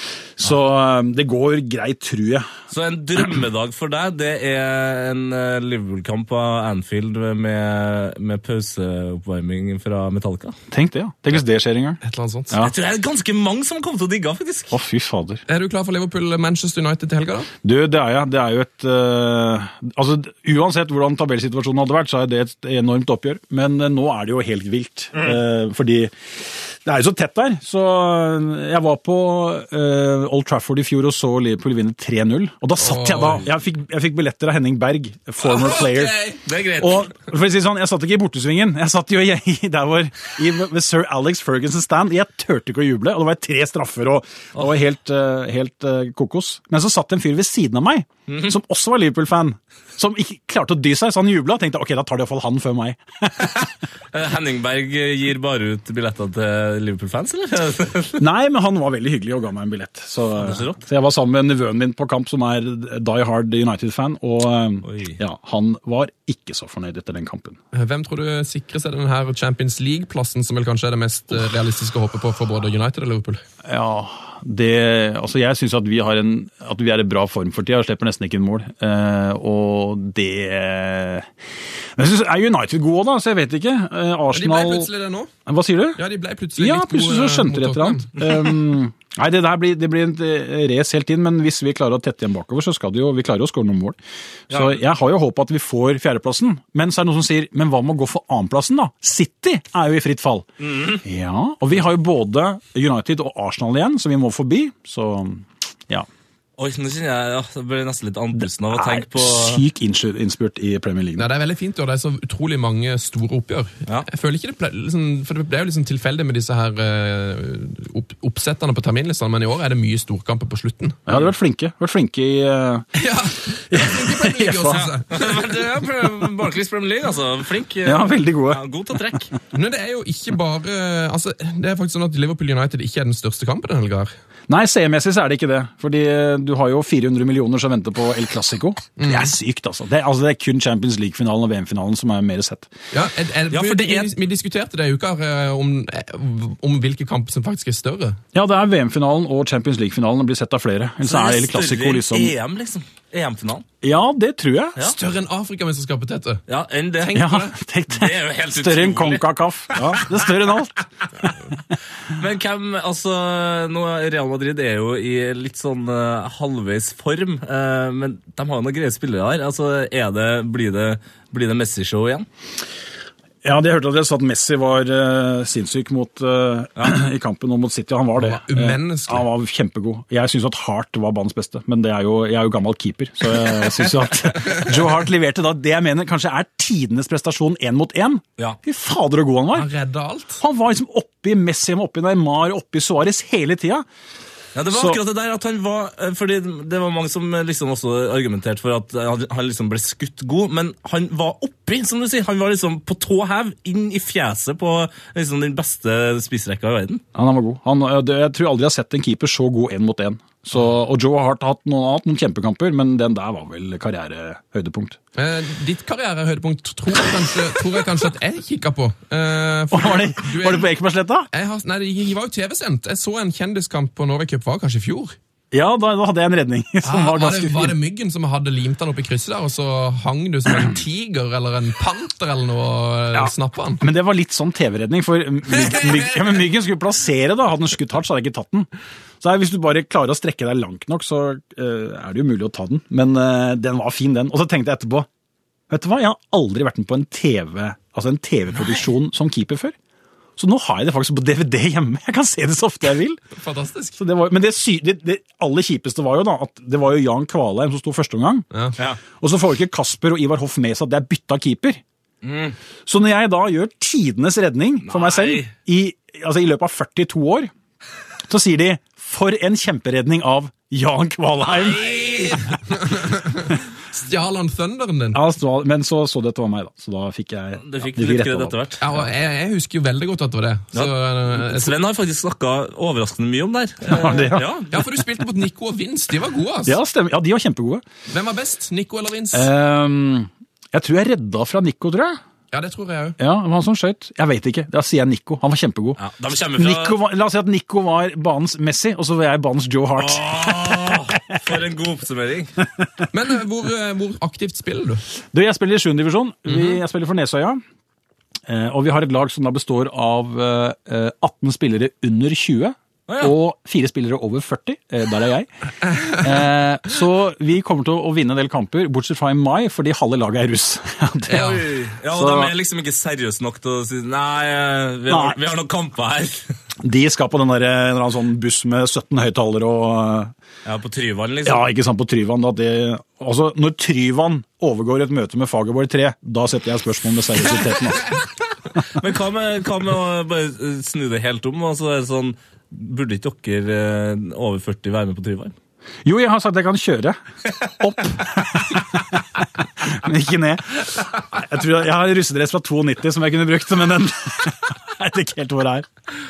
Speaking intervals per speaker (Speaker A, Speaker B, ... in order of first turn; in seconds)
Speaker A: 0.4-2.5, 10.7-12.0, 14.7-15.4, 17.6-26.1, 26.7-36.2, 36.8-53.7, 58.2-67.6, 73.6-81.3, 82.0-84.9, 85.5-86.0, 86.5-94.0, 94.5-106.1, 108.7-111.2, 121.1-122.9, 123.7-124.9, 127.8-128.6, 134.5-142.7, 148.3-152.3, 153.8-154.8, 157.1-161.3, 173.4-189.7, 190.4-193.8, 194.7-195.0, 207.1-215.0, 219.7-221.3, 225.5-227.8, 233.1-238.7, 239.2-245.1, 245.7-249.7, 250.4-253.2, 254.0-258.4, 259.2-261.8, 262.9-267.5, 268.3-272.5, 275.1-278.6, 283.9-284.5, 286.6-287.8, 289.3-292.2, 293.2-296.0, 296.5-301.4, 305.3-307.6, 308.5-315.5, 316.1-322.5, 325.1-325.4, 326.8-330.3, 331.4-338.1, 346.0-355.9
Speaker B: 2.7-10.6, 12.6-14.8, 36.4-37.1, 48.3-48.5, 54.1-58.2, 60.4-60.8, 64.8-65.2, 94.5-94.7, 100.6-101.0, 106.6-109.6, 124.6-129.3, 143.5-144.1, 151.0-153.6, 156.5-157.3, 157.9-160.0, 162.1-172.3, 194.5-207.0, 262.2-262.6, 264.8-265.5, 271.5-272.5, 277.6-278.9, 280.7-284.8, 296.0-297.0, 299.9-302.5, 313.1-313.3, 321.3-326.4, 330.6-331.7, 338.8-345.5
Speaker C: 12.0-12.5, 15.5-17.5, 32.8-33.5, 35.5-36.4, 67.7-73.4, 84.3-85.3, 86.0-88.2, 111.2-121.0, 123.0-125.5, 129.5-134.1, 139.0-139.3, 142.9-148.2, 154.8-156.4, 157.0-157.5, 178.2-179.3, 189.5-190.4, 215.2-220.7, 221.3-225.2, 226.8-233.8, 235.6-236.0, 253.3-254.0, 272.7-275.2, 278.8-281.8, 284.7-286.8, 288.1-289.5, 292.5-293.2, 303.1-305.0, 306.5-306.8, 321.3-321.6